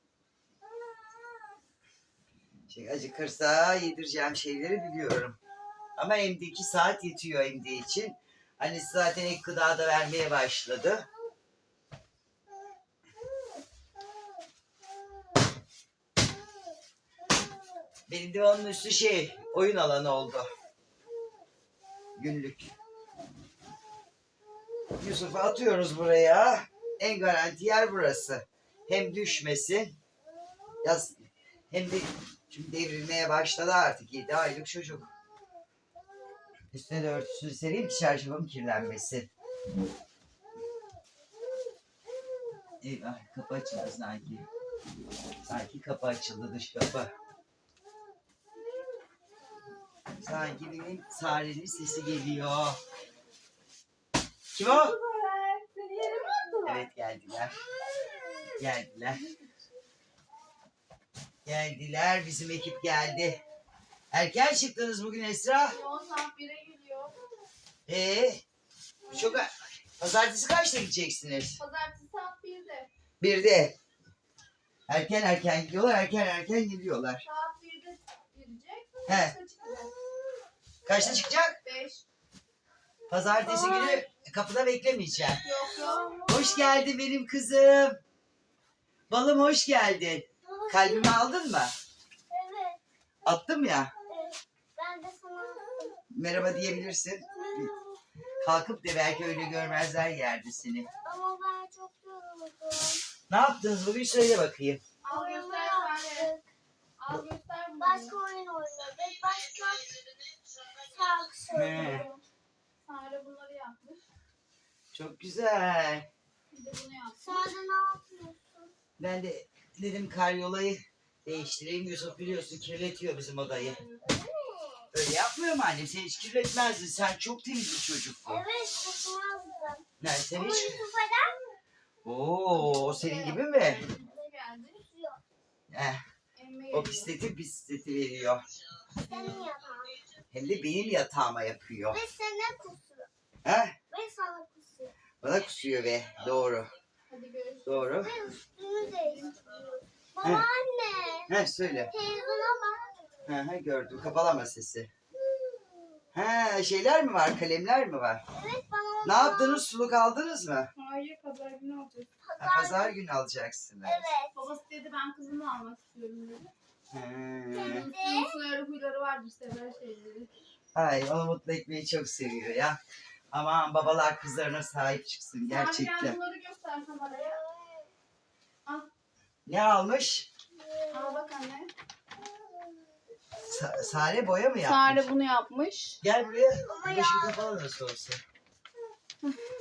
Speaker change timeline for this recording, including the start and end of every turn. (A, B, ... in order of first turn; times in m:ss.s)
0:02.7-0:05.4 A
0:06.0-0:11.1 A
0:18.1-0:20.5 A
0:22.2-0:22.7 A
0:25.0-0:30.0 A
0:30.8-0:35.1 A
0:36.7-0:39.3 A
0:42.8-0:44.5 A
0:45.4-0:47.1 A
0:50.2-0:52.8 A
0:54.5-0:55.0 A
0:54.6-0:56.9 B
0:56.6-0:57.6 A
0:58.6-0:59.2 A
0:59.1-0:59.5 B
1:01.4-1:03.4 A
1:04.1-1:05.8 A
1:05.7-1:07.2 B
1:07.9-1:08.4 A
1:09.0-1:09.4 B
1:09.1-1:11.6 A
1:11.6-1:12.9 B
1:13.2-1:13.8 A
1:14.9-1:17.2 A
1:17.2-1:19.9 B
1:19.1-1:19.4 A
1:20.8-1:21.6 A
1:21.6-1:22.1 B
1:23.1-1:25.4 A
1:23.5-1:24.1 C
1:25.4-1:26.2 B
1:25.7-1:26.8 C
1:26.3-1:28.0 A
1:29.1-1:31.7 A
1:30.5-1:31.2 C
1:32.3-1:32.8 C
1:33.2-1:33.9 A
1:34.1-1:36.0 C
1:36.1-1:37.7 A
1:37.3-1:38.0 C
1:38.4-1:40.9 A
1:41.0-1:43.0 C
1:43.3-1:44.8 A
1:45.0-1:46.3 B
1:45.1-1:46.5 C
1:47.0-1:48.2 B
1:47.8-1:50.0 C
1:50.6-1:52.1 C
1:51.5-1:52.1 A
1:51.5-1:52.2 B
1:52.8-1:54.1 B
1:54.9-1:56.1 A
1:56.5-1:57.4 B
1:57.2-1:58.7 C
1:59.0-2:03.8 A
2:03.9-2:04.9 C
2:04.9-2:08.4 A
2:08.3-2:11.4 C
2:10.0-2:10.8 A
2:12.0-2:13.8 A
2:12.5-2:14.9 B
2:14.8-2:15.2 C
2:15.7-2:16.0 A
2:16.4-2:17.1 B
2:16.7-2:18.5 A
2:19.1-2:19.5 B
2:19.1-2:20.0 C
2:20.3-2:22.0 A
2:21.9-2:23.1 C
2:23.4-2:23.8 A
2:23.9-2:25.0 C
2:25.2-2:26.7 A
2:27.1-2:28.0 B
2:27.6-2:28.1 A
2:28.0-2:31.4 C
2:28.8-2:29.6 B
2:31.3-2:31.9 A
2:31.9-2:32.9 C
2:33.2-2:34.9 A
2:35.2-2:36.0 C
2:36.1-2:38.2 A
2:38.3-2:39.6 C
2:39.0-2:40.7 A
2:40.8-2:42.1 B
2:42.2-2:43.0 C
2:42.4-2:44.1 A
2:43.8-2:44.4 C
2:44.3-2:46.5 B
2:46.9-2:47.9 A
2:47.5-2:48.4 C
2:47.6-2:50.3 B
2:50.8-2:52.8 A
2:53.3-2:56.2 A
2:55.5-2:57.4 B
2:57.3-2:57.9 C
2:59.5-3:00.3 A
3:00.6-3:01.2 C
3:00.9-3:01.7 B
3:03.4-3:05.0 A
3:04.6-3:06.0 B
3:06.0-3:08.2 A
3:06.5-3:07.6 C